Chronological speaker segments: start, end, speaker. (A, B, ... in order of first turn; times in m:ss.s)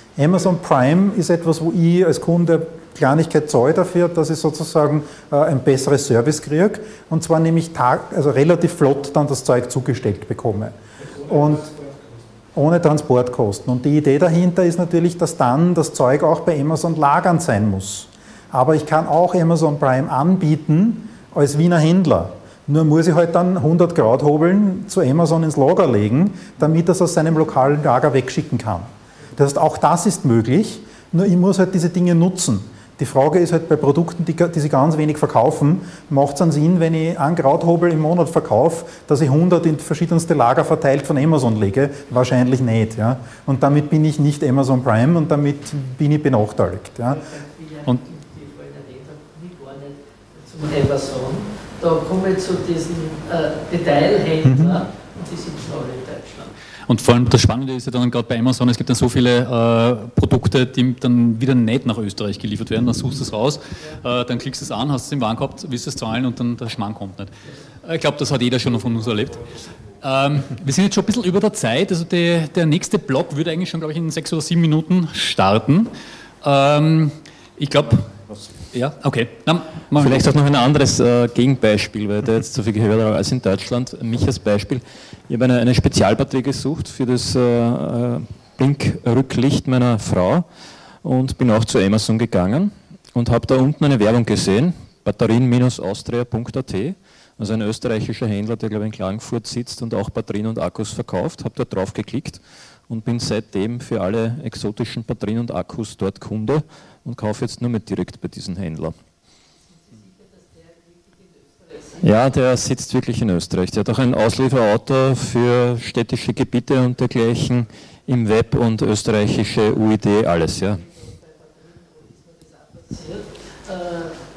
0:00.2-0:11.7 A
0:12.6-0:47.2 A
0:47.1-0:56.5 B
0:54.4-0:54.8 A
0:56.9-1:07.3 C
1:07.8-1:09.5 C
1:10.0-1:20.3 C
1:19.9-1:30.5 D
1:31.0-1:49.0 D
1:49.9-1:52.0 B
1:52.0-2:00.8 D
2:01.0-2:04.2 B